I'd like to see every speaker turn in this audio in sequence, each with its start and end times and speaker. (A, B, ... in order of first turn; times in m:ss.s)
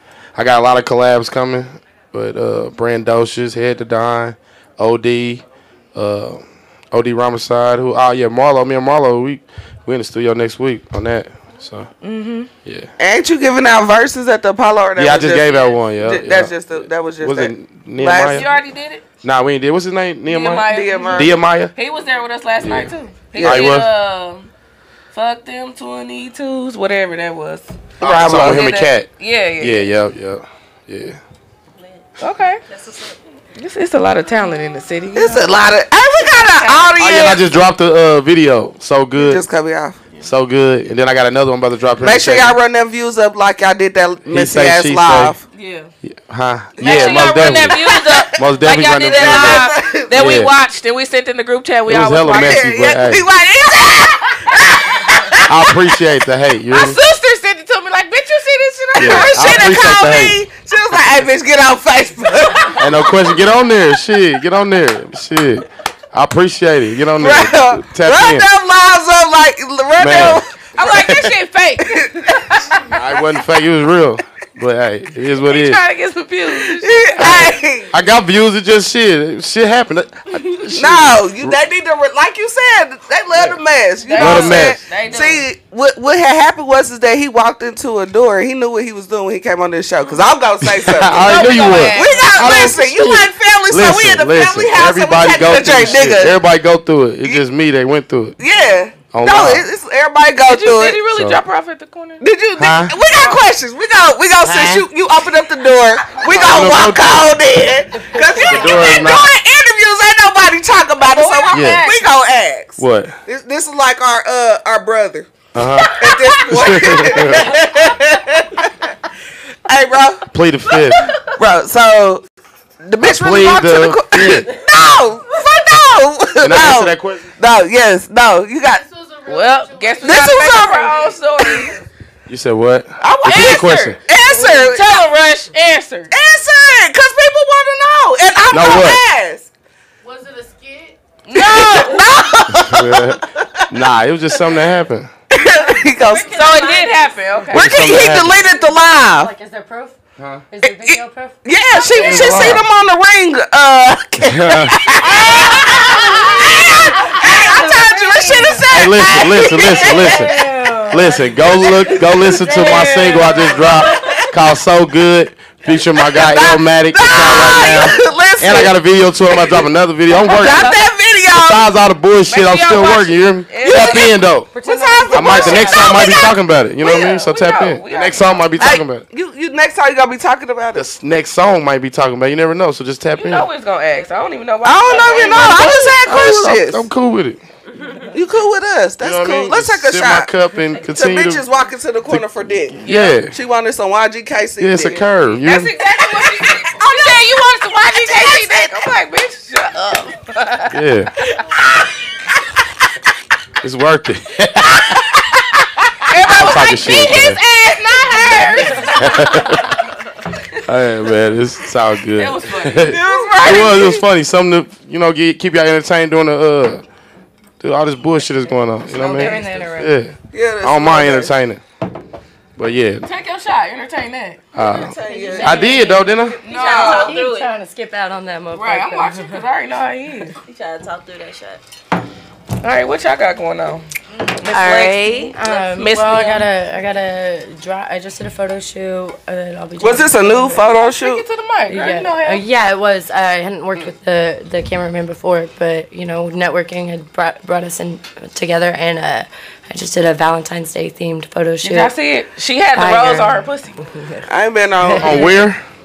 0:00.3-0:11.9 A
0:12.0-0:12.5 B
0:13.0-0:18.5 C
0:15.0-0:18.5 A
0:18.3-0:19.0 B
0:19.2-0:21.7 A
0:20.3-0:24.5 B
0:20.7-0:21.3 C
0:22.6-0:23.9 A
0:23.4-0:23.7 C
0:25.1-0:27.7 B
0:28.0-0:28.7 C
0:28.0-0:31.2 A
0:28.2-0:29.9 B
0:31.8-0:32.0 D
0:32.2-0:32.6 B
0:32.7-0:33.2 D
0:33.5-0:35.5 B
0:35.1-0:37.4 C
0:36.2-0:37.1 B
0:37.0-0:39.4 A
0:39.1-0:40.0 C
0:40.2-0:42.6 A
0:42.0-0:45.4 C
0:44.2-0:45.3 A
0:45.5-0:45.9 B
0:46.0-0:50.5 A
0:46.8-0:52.9 B
0:46.8-0:48.4 C
0:49.0-0:50.2 C
0:51.9-0:53.2 A
0:52.3-0:55.8 C
0:55.5-0:57.0 A
0:56.7-0:59.8 B
0:58.9-1:03.3 C
0:59.0-1:00.4 A
1:02.8-1:08.5 A
1:07.2-1:10.5 C
1:10.0-1:11.3 A
1:10.7-1:12.8 B
1:11.9-1:12.6 C
1:12.9-1:15.8 A
1:15.4-1:17.5 B
1:16.5-1:17.9 C
1:17.2-1:21.6 A
1:20.7-1:36.4 C
1:23.3-1:23.6 A
1:24.0-1:25.4 B
1:24.2-1:24.8 A
1:30.6-1:38.4 A
1:31.1-1:32.8 B
1:38.4-1:41.0 C
1:39.1-1:39.6 A
1:40.4-1:42.2 B
1:41.1-1:41.4 A
1:42.2-1:55.3 C
1:42.6-1:43.0 A
1:44.4-1:44.8 A
1:46.2-1:47.4 A
1:48.4-1:49.3 A
1:51.1-1:52.1 B
1:51.5-1:51.9 A
1:52.8-1:53.2 A
1:55.5-1:57.6 A
1:55.9-1:58.9 C
1:59.7-2:00.2 C
2:00.3-2:01.1 A
2:01.2-2:02.2 C
2:02.8-2:08.8 C
2:03.0-2:04.5 A
2:06.4-2:07.3 A
2:08.6-2:11.8 E
2:09.3-2:11.8 B
2:10.0-2:11.4 C
2:12.3-2:14.0 A
2:13.0-2:14.9 C
2:13.2-2:16.1 B
2:16.1-2:19.5 C
2:18.5-2:19.0 A
2:20.0-2:21.0 E
2:21.2-2:22.0 B
2:21.3-2:23.7 C
2:22.5-2:25.1 A
2:25.3-2:26.3 C
2:25.9-2:27.4 D
2:26.3-2:28.0 B
2:27.5-2:29.3 C
2:27.5-2:28.3 A
2:29.1-2:30.0 F
2:30.2-2:30.4 A
2:30.5-2:32.5 F
2:30.6-2:40.3 C
2:32.0-2:32.7 A
2:34.2-2:35.0 A
2:35.1-2:38.7 F
2:38.7-2:40.4 A
2:39.7-2:41.7 F
2:40.9-2:50.7 A
2:41.4-2:44.2 C
2:42.2-2:43.2 F
2:45.7-2:51.7 C
2:50.4-2:50.8 B
2:51.3-2:54.5 A
2:52.3-2:54.1 B
2:53.6-2:56.3 C
2:54.5-2:56.2 F
2:55.1-2:59.0 A
2:56.8-2:58.7 B
2:58.6-3:00.8 C
3:00.7-3:03.5 A
3:03.2-3:06.5 B
3:04.6-3:06.8 C
3:06.0-3:07.4 A
3:08.1-3:10.3 C
3:09.0-3:11.4 A
3:10.9-3:15.0 C
3:12.1-3:13.3 A
3:12.8-3:13.2 B
3:14.6-3:15.7 A
3:15.4-3:21.8 B
3:18.0-3:18.7 C
3:20.7-3:21.1 A
3:23.6-3:25.4 A
3:26.0-3:29.7 B
3:26.2-3:27.4 A
3:29.0-3:29.7 A
3:30.6-3:36.8 A
3:32.2-3:34.0 B
3:32.8-3:33.9 C
3:37.6-3:41.6 A
3:38.9-3:40.0 F
3:38.9-3:39.5 B
3:40.3-3:41.3 C
3:42.6-3:43.0 A
3:43.0-3:44.4 B
3:44.5-3:46.4 A
3:44.6-3:45.6 C
3:44.9-3:47.5 D
3:45.4-3:46.0 F
3:46.4-3:47.2 B
3:46.6-3:49.4 F
3:48.5-3:50.4 B
3:50.4-3:51.6 D
3:52.6-3:53.9 B
3:54.4-3:56.5 B
3:54.4-3:55.6 D
3:54.5-4:00.7 F
3:59.8-4:01.2 C
4:00.7-4:02.4 B
4:01.7-4:11.9 F
4:11.6-4:13.8 B
4:12.7-4:14.2 F
4:14.3-4:15.3 C
4:14.8-4:15.4 F
4:15.0-4:15.6 A